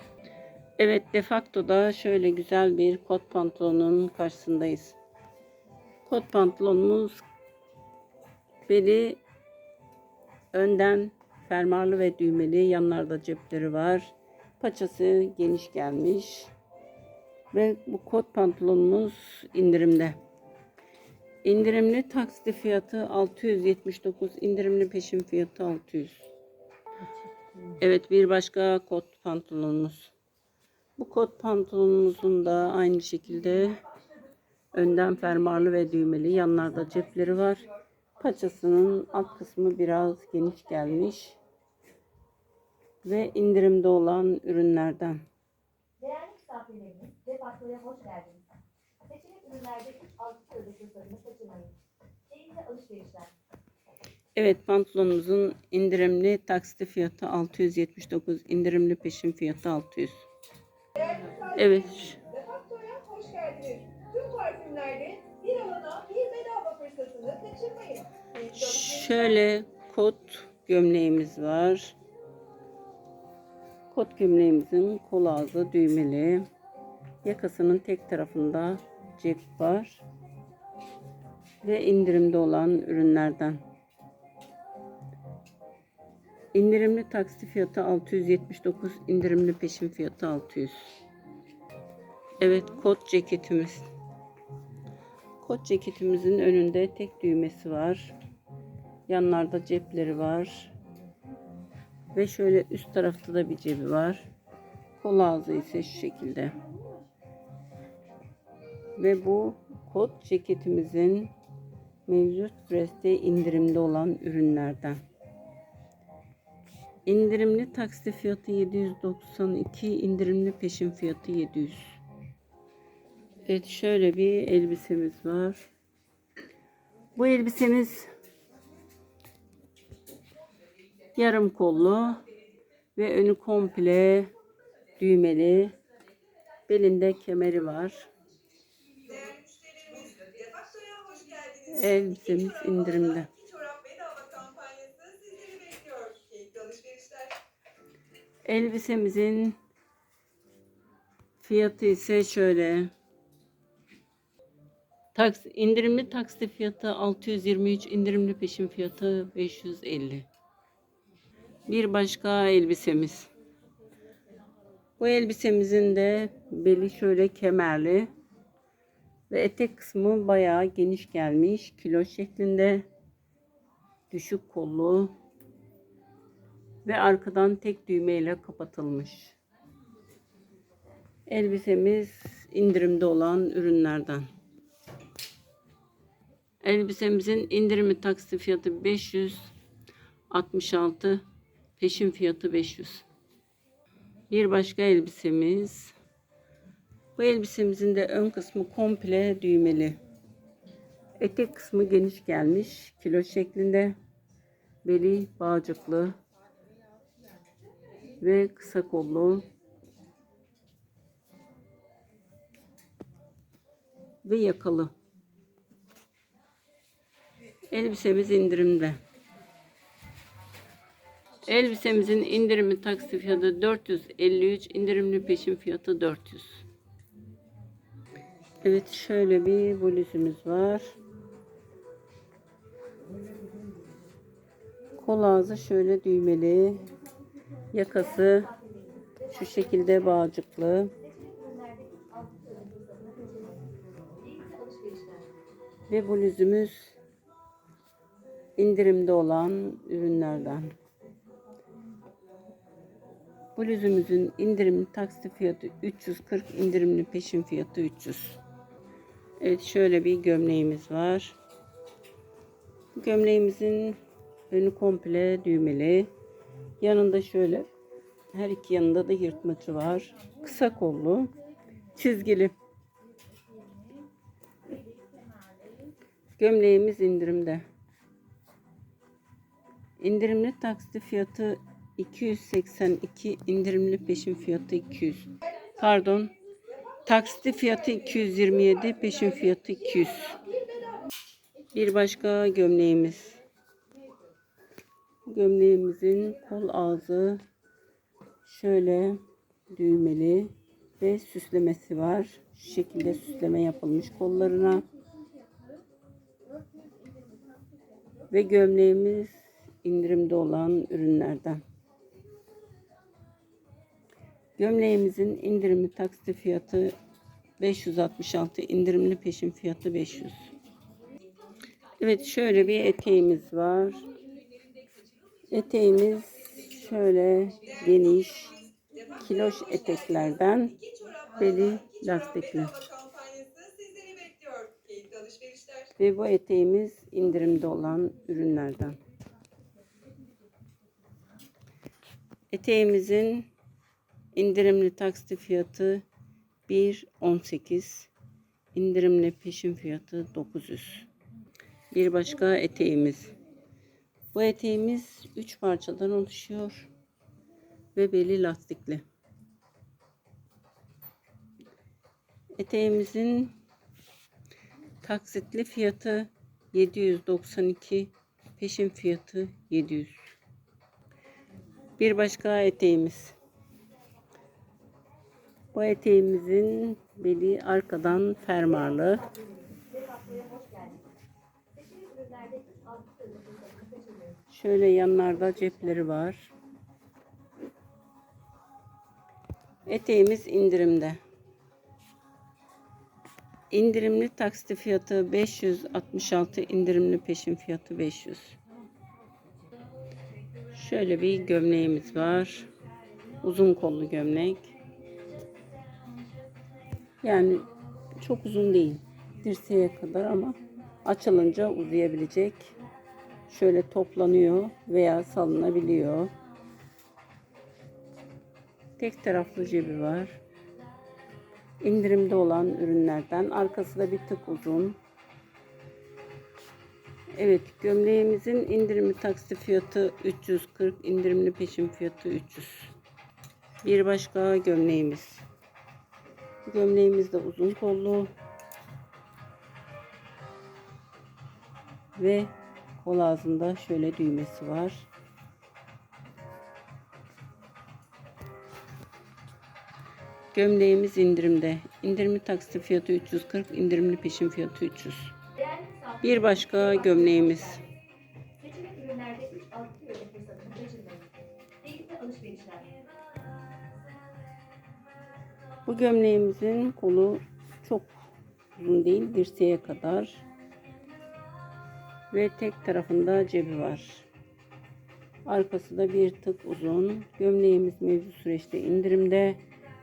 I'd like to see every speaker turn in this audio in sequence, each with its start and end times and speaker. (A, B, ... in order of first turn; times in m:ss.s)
0:00.8-0:05.0 A
0:06.0-0:07.2 A
0:08.7-0:09.2 A
0:10.5-0:16.5 A
0:17.5-0:20.2 A
0:21.4-0:26.2 A
0:27.8-0:30.1 A
0:31.0-0:33.8 A
0:34.7-0:37.6 A
0:38.2-0:41.4 A
0:43.0-0:45.2 A
0:46.0-0:48.4 B
0:49.0-0:51.7 B
0:52.3-0:53.3 B
0:54.3-1:00.2 A
1:01.0-1:01.3 C
1:01.4-1:02.2 A
1:02.2-1:08.3 C
1:08.5-1:11.9 A
1:13.9-1:16.5 A
1:17.2-1:20.0 A
1:21.6-1:23.6 A
1:26.5-1:30.9 A
1:32.4-1:33.9 A
1:35.4-1:38.1 A
1:39.1-1:40.7 A
1:42.1-1:44.3 A
1:45.0-1:46.6 A
1:49.0-1:51.3 A
1:52.1-1:55.0 A
1:57.0-2:02.0 A
2:03.4-2:05.6 A
2:07.2-2:08.1 A
2:11.1-2:12.2 A
2:13.0-2:14.3 A
2:15.0-2:15.8 A
2:16.7-2:18.1 A
2:19.1-2:21.6 C
2:21.6-2:23.3 A
2:23.6-2:27.3 C
2:28.4-2:29.6 A
2:31.4-2:32.9 A
2:35.1-2:40.3 A
2:41.7-2:43.3 A
2:45.0-2:48.1 A
2:49.3-2:52.8 A
2:54.1-2:55.1 A
2:56.8-2:59.4 A
3:01.3-3:04.3 A
3:06.6-3:09.5 A
3:10.3-3:11.2 A
3:11.8-3:13.0 A
3:14.3-3:15.9 A
3:17.2-3:20.0 A
3:21.2-3:23.9 A
3:24.8-3:26.2 A
3:28.2-3:29.4 A
3:34.2-3:34.9 A
3:37.7-3:39.0 A
3:41.4-3:46.6 A
3:48.6-3:50.9 A
3:55.0-3:56.8 A
3:57.7-3:58.5 A
3:58.2-4:00.1 B
3:59.3-4:00.9 A
4:01.0-4:05.3 B
4:05.9-4:06.9 A
4:08.6-4:10.7 A
4:13.6-4:18.4 A
4:19.4-4:21.4 A
4:23.0-4:24.0 A
4:24.5-4:26.1 A
4:26.8-4:27.7 A
4:28.3-4:31.3 A
4:31.9-4:32.5 A
4:33.7-4:34.0 C
4:35.2-4:35.6 C
4:36.4-4:37.6 A
4:40.0-4:46.3 A
4:47.0-4:50.6 A
4:50.6-4:51.0 C
4:51.7-4:53.4 A
4:55.2-4:57.4 A
4:58.4-4:59.2 A
4:59.7-5:04.8 A
5:06.6-5:07.6 C
5:08.3-5:11.6 A
5:14.6-5:16.9 A
5:17.6-5:20.4 A
5:22.0-5:24.0 A
5:25.5-5:28.6 A
5:29.1-5:30.8 A
5:31.4-5:32.8 A
5:32.9-5:35.8 C
5:36.0-5:39.0 A
5:42.5-5:43.5 A
5:44.3-5:46.0 A
5:46.7-5:48.1 A
5:48.7-5:51.1 A
5:51.9-5:53.3 A
5:54.3-5:56.9 A
5:57.9-5:59.0 A
6:02.6-6:03.5 A
6:05.0-6:10.3 A
6:12.0-6:13.3 A
6:15.7-6:19.3 A
6:18.8-6:21.1 B
6:21.7-6:24.4 B
6:24.5-6:26.5 A
6:29.8-6:31.2 A
6:33.7-6:38.6 A
6:40.7-6:42.7 A
6:43.4-6:44.7 A
6:47.2-6:47.7 A
6:48.2-6:52.7 A
6:53.5-6:56.3 A
6:59.0-7:00.4 A
7:01.8-7:05.0 A
7:07.3-7:12.9 A
7:13.8-7:15.4 A
7:16.6-7:18.3 A
7:22.2-7:25.1 A
7:30.5-7:35.3 A
7:35.6-7:37.8 B
7:36.2-7:37.8 A
7:38.6-7:41.2 B
7:41.8-7:42.9 B
7:45.8-7:48.2 A
7:48.8-7:50.4 A
7:52.3-7:54.3 A
7:55.4-7:59.6 A